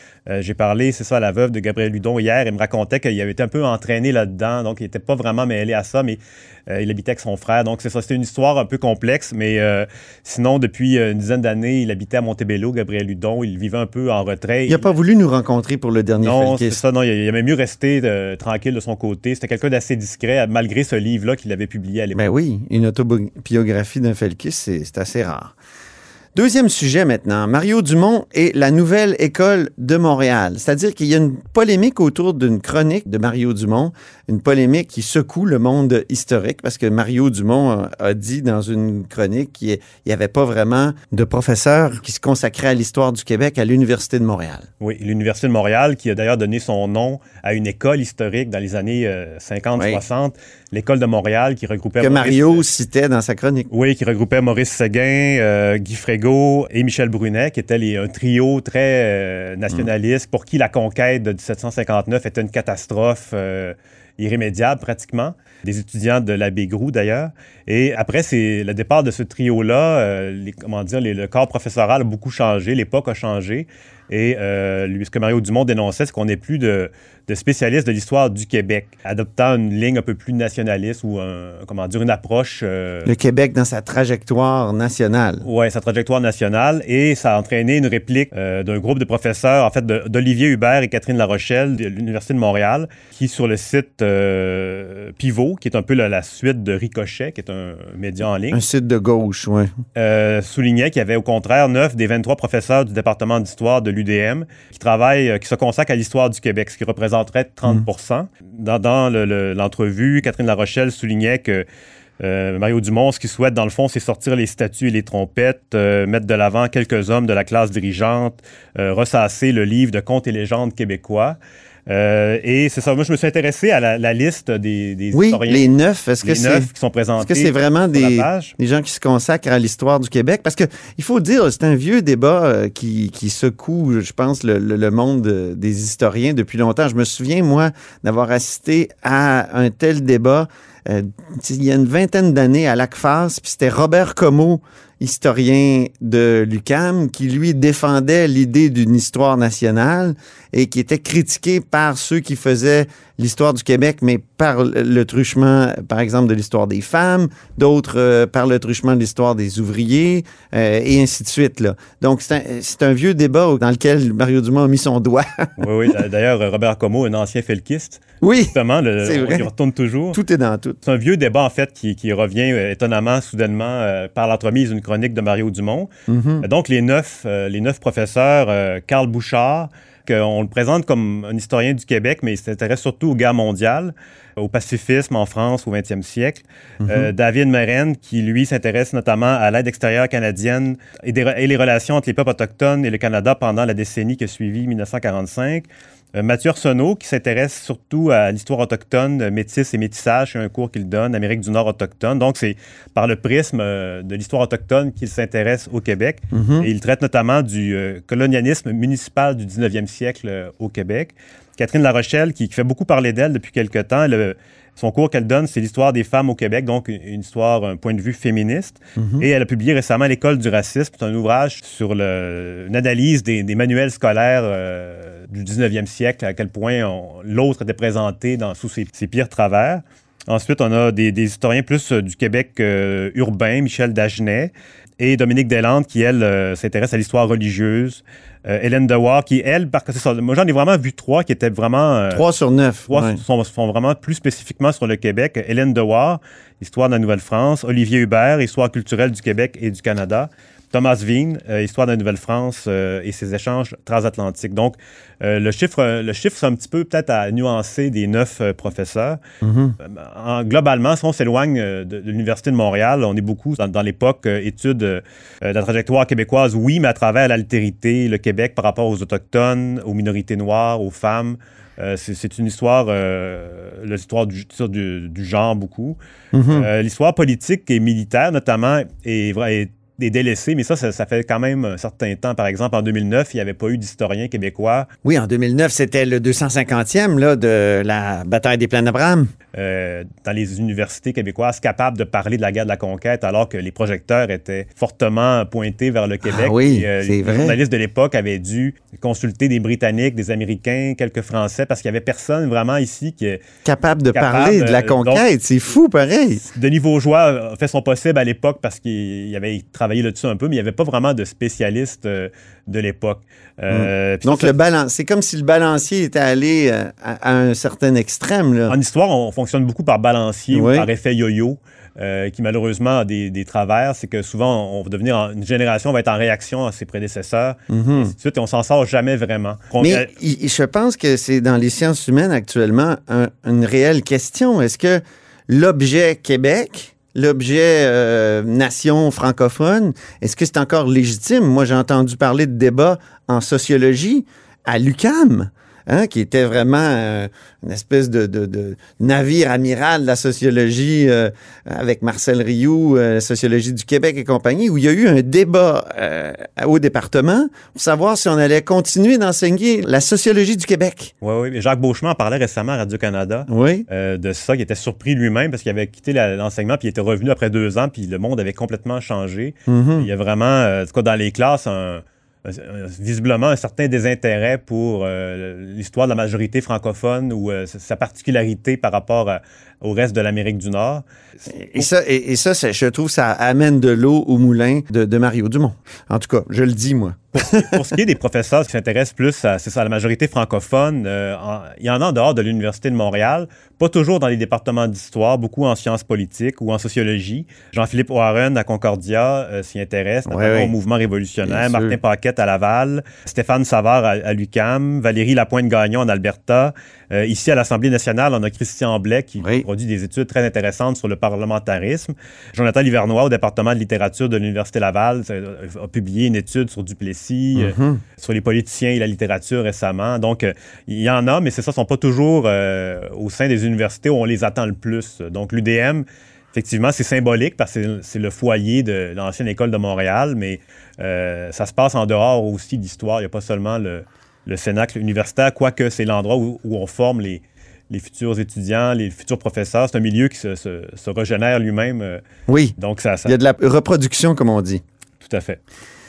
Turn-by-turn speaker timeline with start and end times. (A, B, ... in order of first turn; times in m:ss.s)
0:00.3-0:14.9 A
0:14.7-0:16.8 B
0:16.2-0:22.3 A
0:22.1-0:25.5 B
0:26.3-0:44.6 B
0:44.8-0:52.6 A
0:52.0-0:53.7 B
0:53.7-1:23.1 A
1:23.0-1:25.4 B
1:25.4-1:38.6 A
1:38.5-1:39.7 B
1:39.9-1:51.6 A
1:52.2-2:05.7 A
2:05.1-2:45.5 B
2:06.2-2:08.5 A
2:45.6-2:50.2 A
2:48.2-2:49.5 B
2:50.1-2:50.8 B
2:50.8-2:55.9 A
2:56.1-2:56.5 B
2:56.4-4:02.2 A
3:06.8-3:07.1 B
3:26.3-3:26.7 B
3:39.0-3:39.3 B
4:02.1-4:03.2 B
4:02.9-4:19.2 A
4:19.4-4:19.8 B
4:19.8-4:36.0 A
4:36.3-4:36.7 B
4:36.5-4:44.9 A
4:45.0-4:49.3 B
4:49.5-5:03.4 A
4:56.2-4:57.6 B
5:03.6-5:06.4 B
5:04.1-5:05.2 A
5:06.4-5:14.5 A
5:13.7-5:18.8 B
5:18.7-5:30.1 A
5:20.5-5:20.9 B
5:27.7-5:28.1 B
5:29.8-6:01.1 B
6:01.2-6:21.9 A
6:03.5-6:03.9 B
6:09.7-6:10.1 B
6:21.5-6:27.7 B
6:27.4-7:22.2 A
6:40.3-6:40.7 B
6:41.4-6:42.0 B
6:49.4-6:49.6 B
6:57.5-6:58.0 B
7:22.5-7:24.8 B
7:22.8-7:23.4 A
7:25.2-7:25.6 A